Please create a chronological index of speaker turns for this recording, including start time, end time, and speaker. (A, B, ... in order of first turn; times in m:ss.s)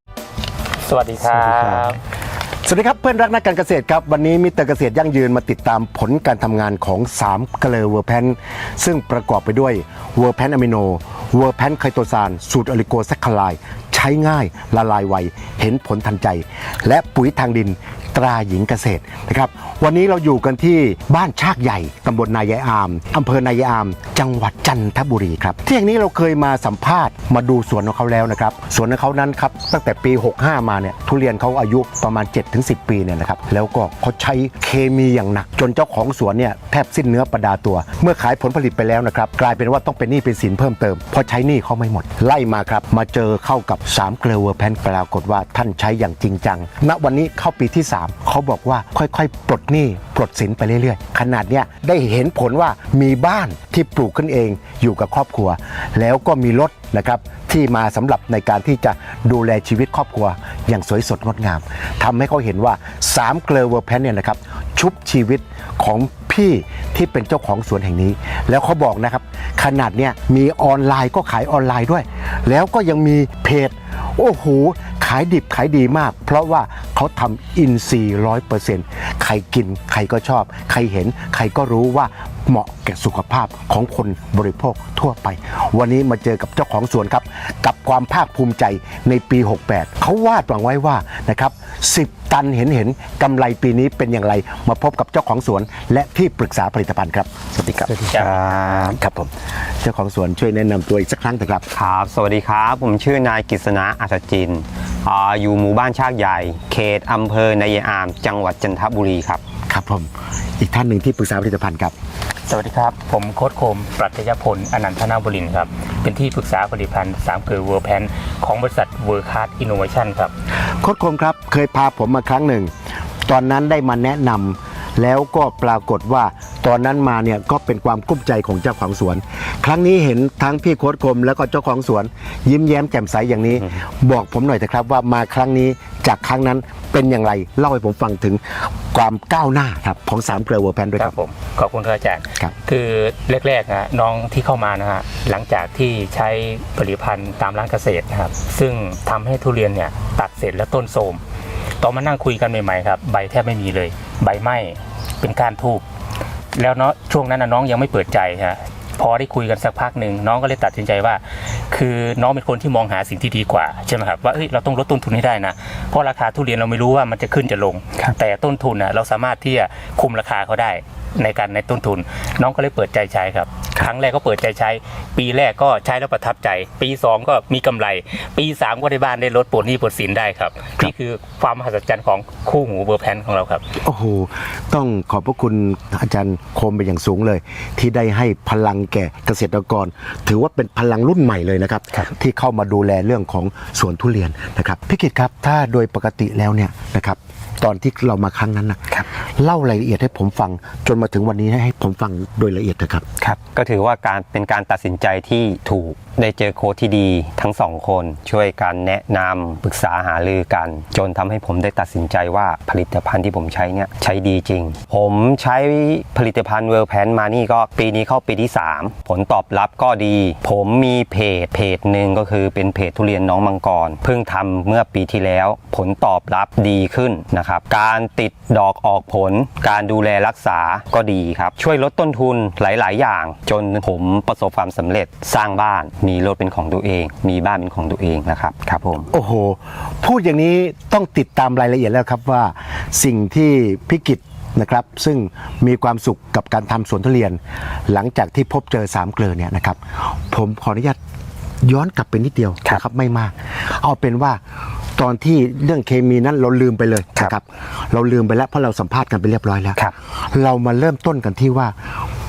0:00.8-0:02.0 A
0:01.5-0:01.9 B
0:02.6-1:39.3 B
1:38.1-1:39.0 C
1:39.8-1:41.6 B
1:41.7-1:49.4 C
1:49.7-1:51.9 B
1:52.5-2:00.3 A
2:00.8-2:02.7 B
2:03.3-2:21.1 B
2:21.0-2:31.2 A
2:31.8-2:35.8 A
2:36.6-3:03.6 A
3:03.8-3:23.0 B
3:23.2-3:59.1 C
3:59.1-4:07.4 B
4:07.9-4:09.8 B
4:10.3-4:11.0 B
4:11.6-4:14.4 B
4:15.0-4:19.8 B
4:20.3-4:21.7 B